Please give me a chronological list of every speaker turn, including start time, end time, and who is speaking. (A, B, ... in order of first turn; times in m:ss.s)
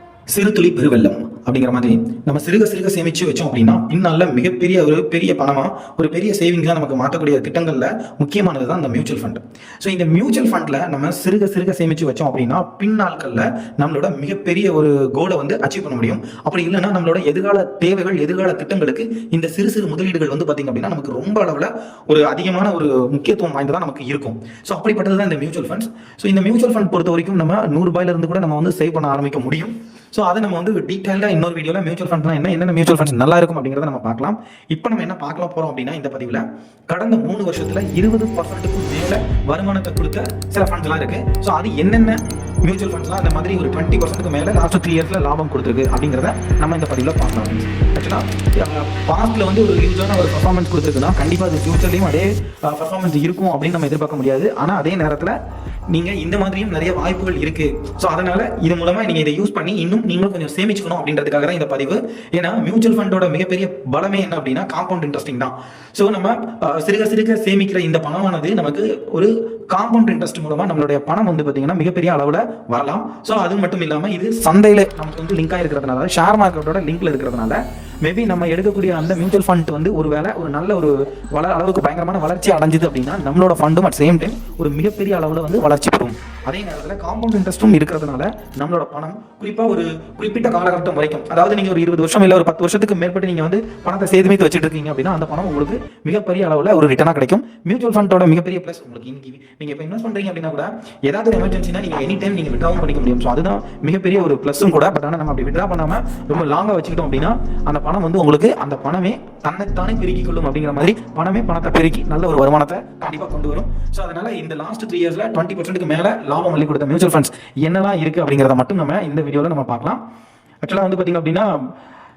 0:00.3-0:55.4 A
0:55.9-2:00.0 A
2:00.6-2:01.7 A